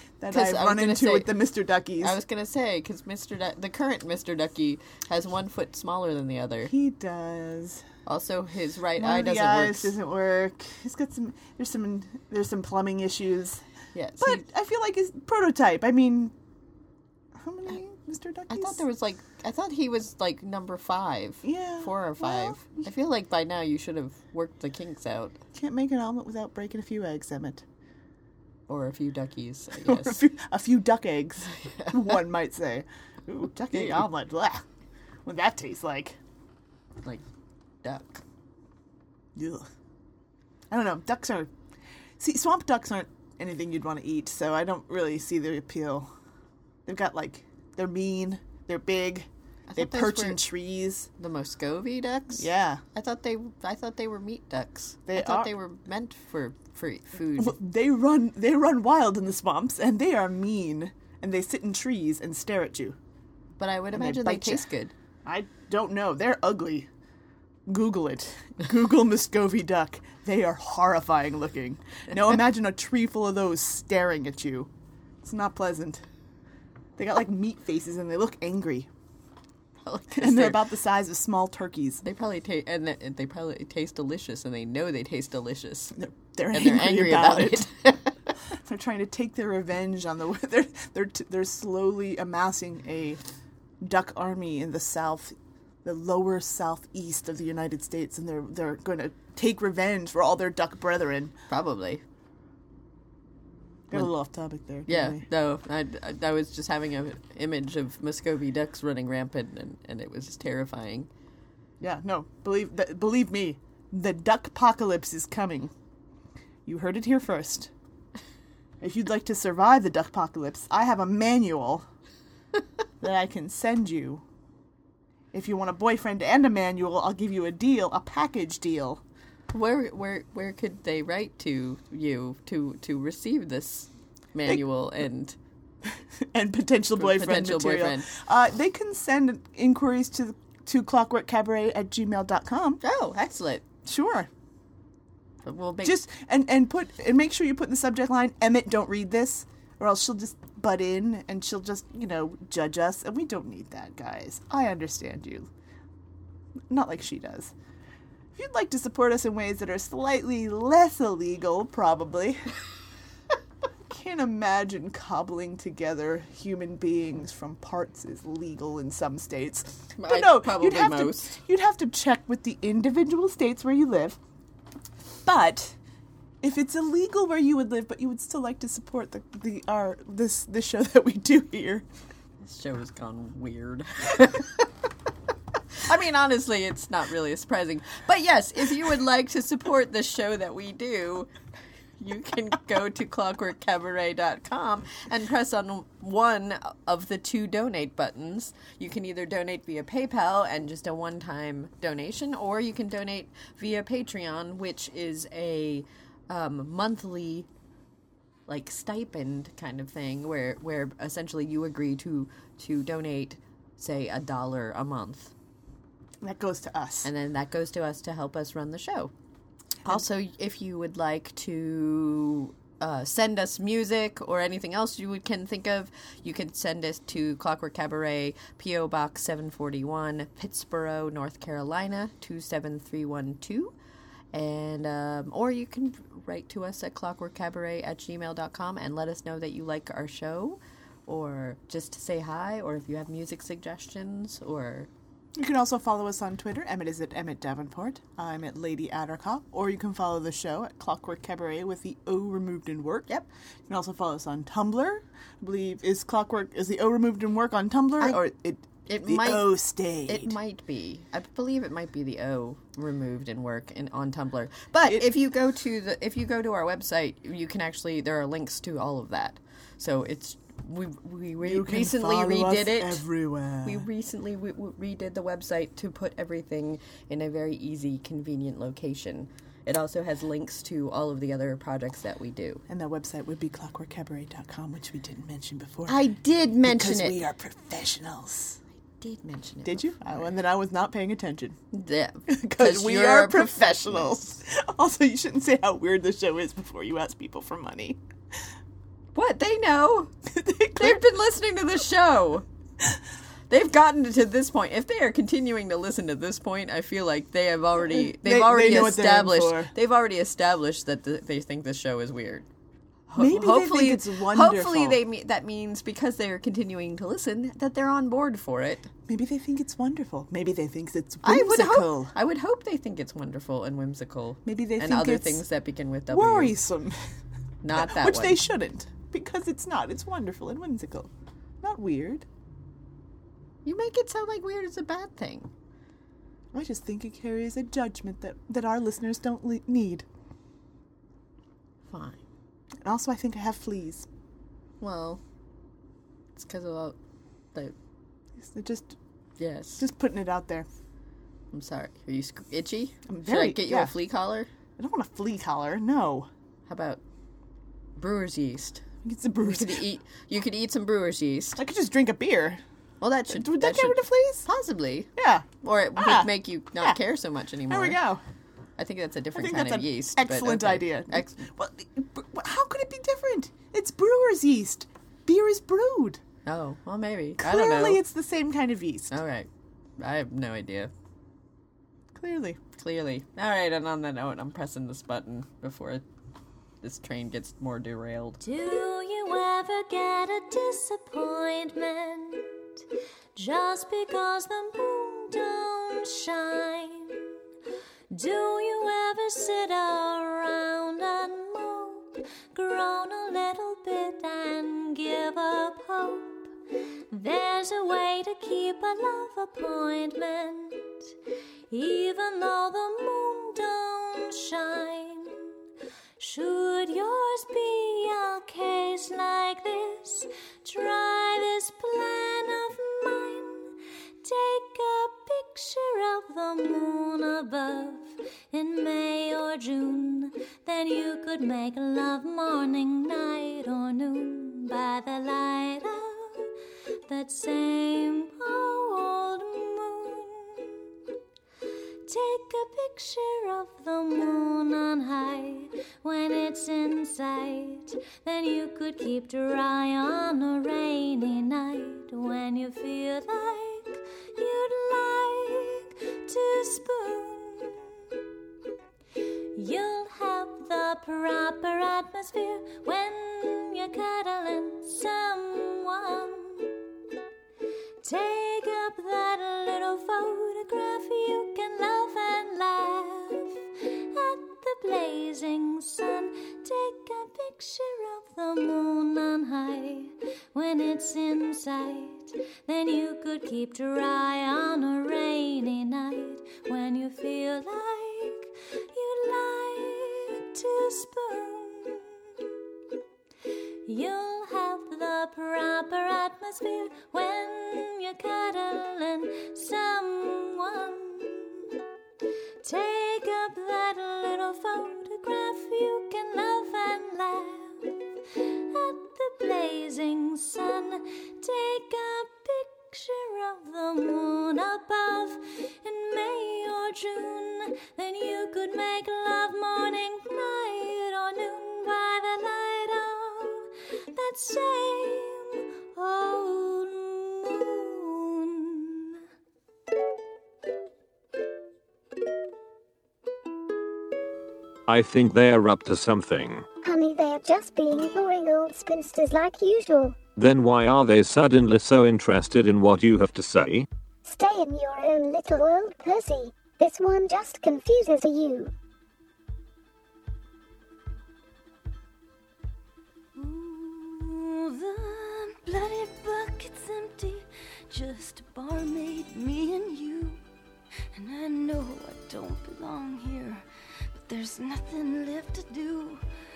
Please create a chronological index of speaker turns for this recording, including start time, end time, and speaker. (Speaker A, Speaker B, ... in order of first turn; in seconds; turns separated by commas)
Speaker A: 0.2-2.2, Speaker B: 0.3-1.3, Speaker B: 2.0-6.7, Speaker A: 6.7-7.8, Speaker B: 8.1-9.9, Speaker A: 9.0-13.6, Speaker B: 13.9-14.4, Speaker A: 14.2-16.3, Speaker A: 17.4-18.9, Speaker B: 18.5-25.4, Speaker A: 21.4-22.7, Speaker A: 25.5-27.6, Speaker B: 28.7-30.2, Speaker A: 29.8-34.6, Speaker B: 31.6-32.1, Speaker B: 33.7-34.1, Speaker A: 35.3-36.2, Speaker B: 37.8-38.2, Speaker A: 39.4-39.7, Speaker A: 40.7-41.5, Speaker A: 42.2-46.1, Speaker A: 46.9-51.1, Speaker B: 49.7-50.4, Speaker B: 51.2-57.6, Speaker A: 52.4-52.8, Speaker A: 55.1-55.5, Speaker A: 57.4-63.0, Speaker B: 63.6-64.9, Speaker A: 63.9-64.7, Speaker A: 65.2-66.9, Speaker A: 67.7-74.7, Speaker A: 75.2-76.0, Speaker A: 77.0-78.9, Speaker B: 79.8-80.6, Speaker A: 80.2-82.0, Speaker B: 82.0-86.0, Speaker A: 86.0-87.7, Speaker B: 86.5-88.2, Speaker A: 88.6-93.2, Speaker A: 93.8-101.3, Speaker B: 101.5-102.0, Speaker A: 103.9-105.3, Speaker B: 104.9-111.1, Speaker A: 111.8-115.7, Speaker A: 116.7-117.7, Speaker A: 118.8-121.9, Speaker A: 123.0-124.2, Speaker A: 125.3-129.0, Speaker B: 129.5-135.4, Speaker A: 135.9-142.8, Speaker B: 137.0-138.1, Speaker B: 142.8-143.6, Speaker A: 143.8-144.3, Speaker B: 145.4-146.0, Speaker A: 145.8-155.5, Speaker A: 156.7-157.5, Speaker A: 158.4-162.5, Speaker A: 163.9-174.2, Speaker B: 170.0-171.4, Speaker A: 175.2-175.8, Speaker A: 176.4-181.8, Speaker B: 182.4-184.7, Speaker B: 185.9-191.3, Speaker B: 192.0-207.5, Speaker B: 208.5-215.3, Speaker A: 216.2-217.1, Speaker B: 217.0-219.1, Speaker B: 219.9-233.7, Speaker B: 234.3-244.9, Speaker A: 245.3-253.1, Speaker A: 253.7-260.4, Speaker B: 258.9-273.0, Speaker A: 271.4-273.9, Speaker B: 273.6-282.6, Speaker A: 282.7-286.0, Speaker B: 285.9-287.2, Speaker A: 286.6-288.6, Speaker B: 288.8-290.1, Speaker A: 289.6-291.6, Speaker B: 291.7-294.4, Speaker A: 292.3-298.0, Speaker B: 299.1-300.1, Speaker A: 300.3-301.1, Speaker B: 300.8-302.4, Speaker B: 303.5-312.5, Speaker A: 307.9-309.7, Speaker B: 313.1-318.9, Speaker A: 313.1-315.0, Speaker A: 319.1-322.1, Speaker B: 321.2-326.6, Speaker A: 324.4-325.4, Speaker A: 326.1-327.0, Speaker B: 327.6-328.4, Speaker A: 327.7-331.1, Speaker A: 331.6-332.3, Speaker B: 333.6-335.5, Speaker A: 336.5-340.1, Speaker B: 341.9-342.2, Speaker A: 342.8-344.1, Speaker B: 344.8-345.2, Speaker B: 346.4-347.0, Speaker A: 348.4-349.0, Speaker B: 349.4-349.8, Speaker A: 349.8-350.7, Speaker B: 351.5-354.5, Speaker A: 353.1-354.0, Speaker A: 354.8-356.3, Speaker B: 356.7-357.0, Speaker B: 358.0-358.8, Speaker A: 359.0-359.8, Speaker B: 359.4-361.6, Speaker A: 361.6-362.6, Speaker B: 363.0-365.1, Speaker A: 363.3-364.5, Speaker A: 365.2-367.0, Speaker B: 365.6-368.0, Speaker A: 367.7-368.2, Speaker B: 368.8-371.4, Speaker A: 369.4-376.2, Speaker B: 376.4-378.0, Speaker A: 377.4-379.2, Speaker B: 379.1-379.5, Speaker B: 380.0-380.9, Speaker A: 382.1-382.6, Speaker B: 382.8-386.0, Speaker B: 386.8-388.4, Speaker C: 388.4-392.8, Speaker C: 393.4-397.2, Speaker C: 398.1-406.5, Speaker C: 407.1-411.1, Speaker C: 411.7-415.6, Speaker C: 416.2-423.7, Speaker C: 424.2-436.5, Speaker C: 437.1-440.8, Speaker C: 442.1-457.8, Speaker C: 459.6-466.7, Speaker C: 468.0-492.2, Speaker C: 493.9-501.8, Speaker C: 502.6-507.9, Speaker C: 508.7-529.1, Speaker D: 534.9-536.7, Speaker E: 536.8-540.2, Speaker D: 540.4-543.9, Speaker E: 544.3-548.7, Speaker F: 553.4-560.4, Speaker F: 561.1-566.2